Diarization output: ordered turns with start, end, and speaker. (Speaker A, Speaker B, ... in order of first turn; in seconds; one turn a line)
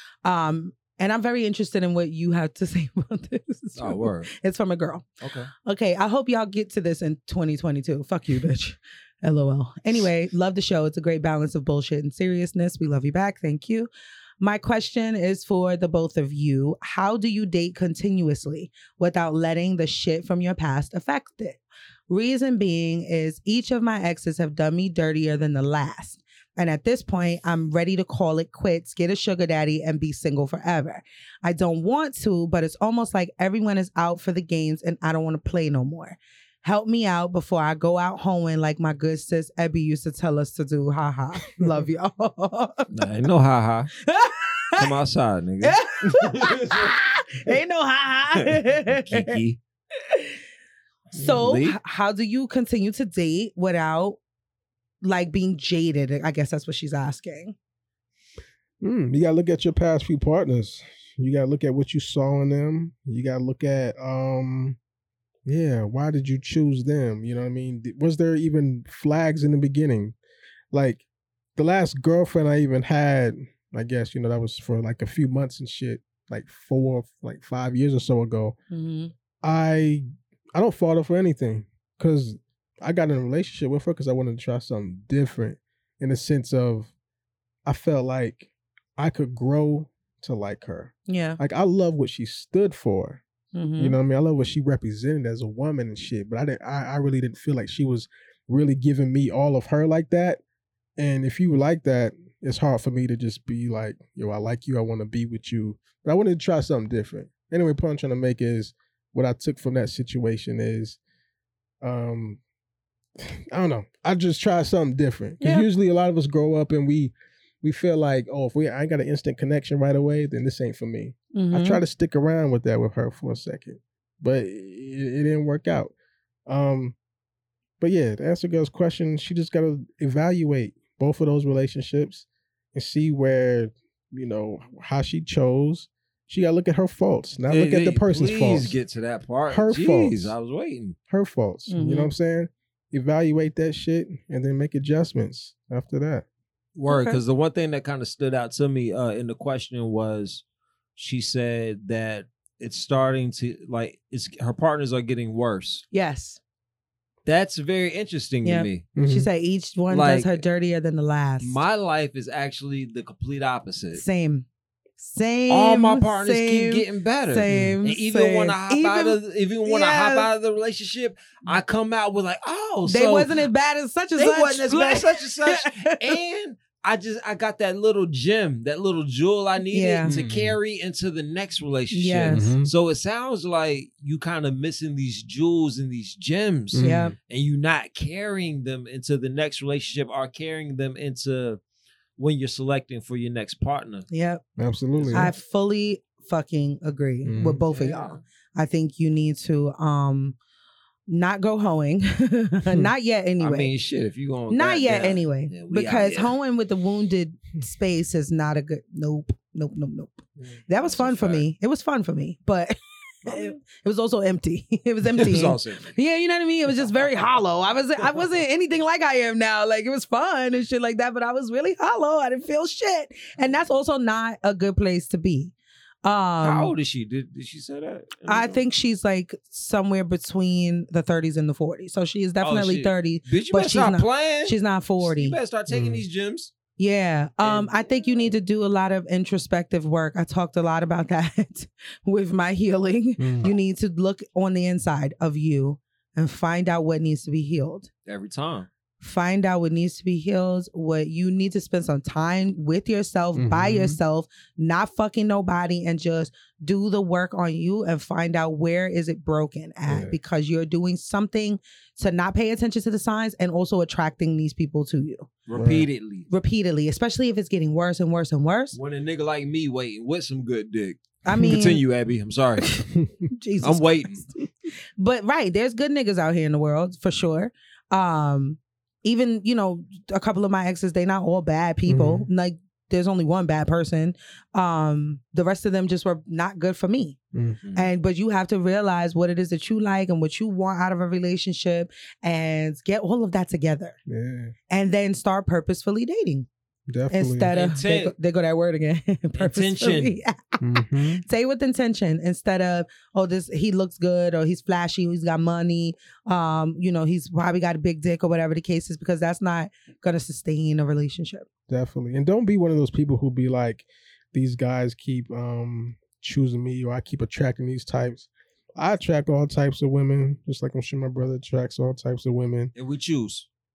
Speaker A: 0.2-5.0
Speaker B: 3.8-4.3
Speaker B: 5.2-5.5
Speaker A: 5.6-42.9
Speaker B: 42.9-43.9
Speaker A: 44.0-44.9
Speaker B: 44.8-46.9
Speaker A: 45.6-49.4
Speaker B: 48.4-49.6
Speaker A: 50.1-50.4
Speaker A: 51.1-54.2
Speaker B: 51.2-51.8
Speaker A: 55.0-57.5
Speaker C: 58.8-64.8
Speaker C: 65.5-70.2
Speaker C: 70.7-71.0
Speaker C: 71.6-78.6
Speaker A: 78.7-79.1
Speaker C: 79.4-86.9
Speaker C: 87.7-93.2
Speaker A: 91.1-91.4
Speaker A: 93.5-94.0
Speaker C: 93.8-100.4
Speaker C: 101.0-111.0
Speaker C: 111.8-112.4
Speaker C: 113.2-125.9
Speaker A: 115.4-115.7
Speaker A: 121.3-121.8
Speaker C: 126.5-127.0
Speaker C: 127.8-138.8
Speaker B: 137.5-141.0
Speaker C: 139.5-140.3
Speaker C: 141.1-146.2
Speaker A: 141.7-142.1
Speaker B: 146.8-150.4
Speaker A: 146.9-147.2
Speaker B: 151.0-155.8
Speaker A: 155.9-156.4
Speaker B: 157.2-158.9
Speaker A: 158.4-161.6
Speaker C: 159.0-159.3
Speaker B: 159.9-160.4
Speaker B: 161.4-164.0
Speaker A: 163.9-164.5
Speaker A: 165.0-170.3
Speaker B: 165.5-173.4
Speaker C: 167.5-167.8
Speaker A: 172.8-176.1
Speaker B: 174.2-191.6
Speaker A: 179.7-180.1
Speaker C: 180.1-180.6
Speaker A: 181.9-182.5
Speaker C: 182.3-182.7
Speaker C: 186.7-187.1
Speaker A: 186.8-187.1
Speaker B: 192.2-194.1
Speaker A: 194.1-194.4
Speaker C: 194.6-195.3
Speaker B: 195.0-195.3
Speaker A: 195.1-200.4
Speaker C: 197.2-197.6
Speaker B: 197.6-198.2
Speaker A: 201.1-203.7
Speaker B: 203.4-206.3
Speaker A: 204.5-225.5
Speaker B: 210.8-211.5
Speaker B: 213.3-213.6
Speaker B: 215.1-215.9
Speaker A: 226.0-226.7
Speaker B: 226.4-228.6
Speaker A: 228.3-235.4
Speaker B: 232.4-236.5
Speaker C: 235.7-236.0
Speaker A: 236.8-247.9
Speaker B: 237.4-237.8
Speaker C: 243.2-243.5
Speaker B: 248.1-248.7
Speaker A: 249.0-265.3
Speaker C: 253.3-254.0
Speaker C: 259.9-260.2
Speaker B: 265.5-266.3
Speaker C: 265.5-265.9
Speaker A: 266.3-268.8
Speaker B: 268.7-272.7
Speaker A: 271.2-271.8
Speaker A: 272.6-287.2
Speaker B: 273.6-274.2
Speaker C: 281.9-282.3
Speaker C: 287.3-287.6
Speaker B: 287.6-287.9
Speaker A: 287.8-294.0
Speaker C: 294.1-294.5
Speaker A: 294.7-296.5
Speaker C: 296.9-297.5
Speaker A: 297.1-311.5
Speaker B: 297.5-298.1
Speaker B: 299.4-300.1
Speaker C: 300.6-301.2
Speaker C: 311.7-322.7
Speaker B: 322.8-323.5